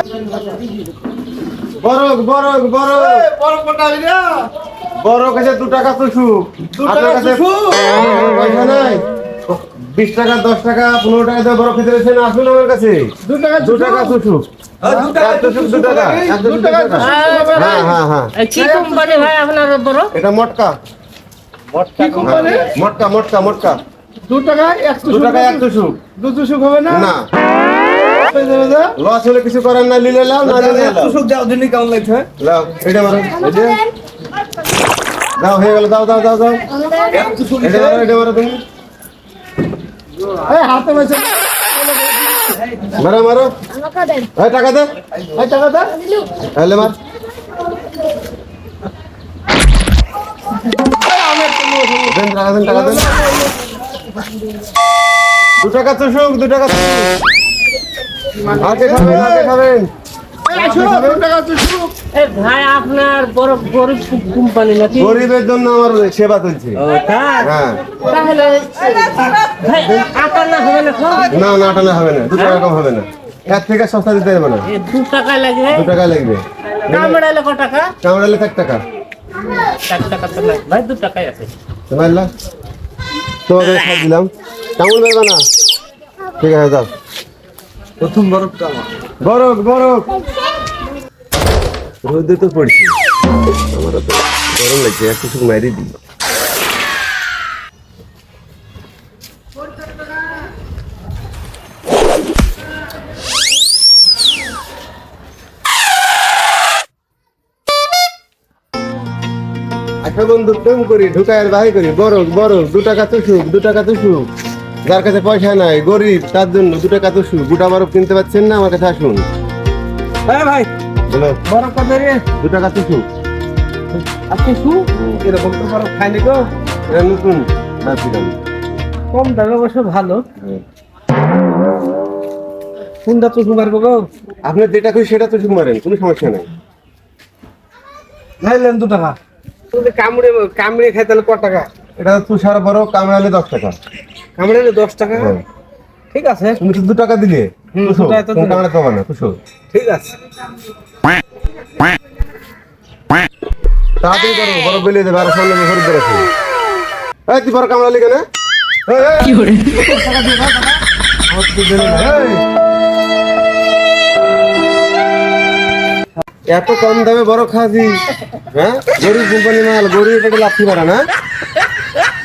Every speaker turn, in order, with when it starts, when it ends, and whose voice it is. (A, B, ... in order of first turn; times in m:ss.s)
0:01.8-0:03.2 A
0:02.9-0:04.5 B
0:05.0-0:13.0 A
0:06.7-0:08.2 B
0:13.2-0:14.2 B
0:13.6-0:14.4 A
0:14.8-0:18.0 B
0:15.0-0:18.3 A
0:17.0-0:17.8 C
0:18.4-0:20.1 C
0:18.5-0:19.3 B
0:20.1-0:20.7 A
0:21.7-0:22.6 C
0:22.0-0:22.7 B
0:22.2-0:23.8 A
0:24.2-0:25.6 B
0:25.0-0:26.0 A
0:26.2-0:27.1 B
0:26.9-0:27.2 A
0:28.1-0:28.9 B
0:29.0-0:31.2 A
0:30.4-0:32.3 B
0:32.4-0:33.5 A
0:33.4-0:33.8 B
0:35.4-0:36.6 A
0:37.0-0:38.0 B
0:37.6-0:38.6 A
0:40.3-0:42.9 B
0:42.9-0:43.5 A
0:44.2-0:44.9 A
0:45.3-0:46.1 B
0:46.5-0:47.0 A
0:51.0-0:53.5 B
0:52.0-0:53.2 A
0:55.6-0:57.1 A
0:58.4-0:59.5 B
0:58.5-0:59.9 A
1:00.5-1:01.9 B
1:00.5-1:00.9 C
1:00.6-1:01.2 A
1:02.1-1:05.2 C
1:04.9-1:06.8 A
1:06.8-1:11.3 C
1:07.4-1:07.8 A
1:11.3-1:14.7 A
1:14.6-1:15.9 C
1:15.7-1:17.2 A
1:16.8-1:17.9 C
1:18.0-1:18.8 A
1:19.8-1:21.5 C
1:21.9-1:22.3 A
1:23.5-1:25.4 A
1:26.4-1:26.9 A
1:28.0-1:28.9 B
1:29.2-1:30.1 A
1:32.0-1:33.0 A
1:33.7-1:36.0 A
1:50.0-1:54.3 A
1:54.8-1:59.2 A
2:00.3-2:00.7 B
2:01.1-2:01.4 A
2:01.4-2:02.2 B
2:02.3-2:03.0 A
2:03.9-2:06.5 B
2:04.9-2:05.2 A
2:06.9-2:08.3 A
2:09.1-2:10.2 B
2:13.0-2:14.1 B
2:14.4-2:16.5 A
2:18.4-2:19.1 B
2:19.7-2:21.7 B
2:22.0-2:23.8 A
2:24.4-2:25.4 B
2:25.1-2:25.4 A
2:26.1-2:26.6 B
2:26.6-2:29.4 A
2:27.7-2:28.6 B
2:29.7-2:30.1 B
2:34.0-2:36.3 A
2:37.3-2:38.2 A
2:38.8-2:42.4 A
2:46.5-2:48.0 A
2:48.5-2:51.1 A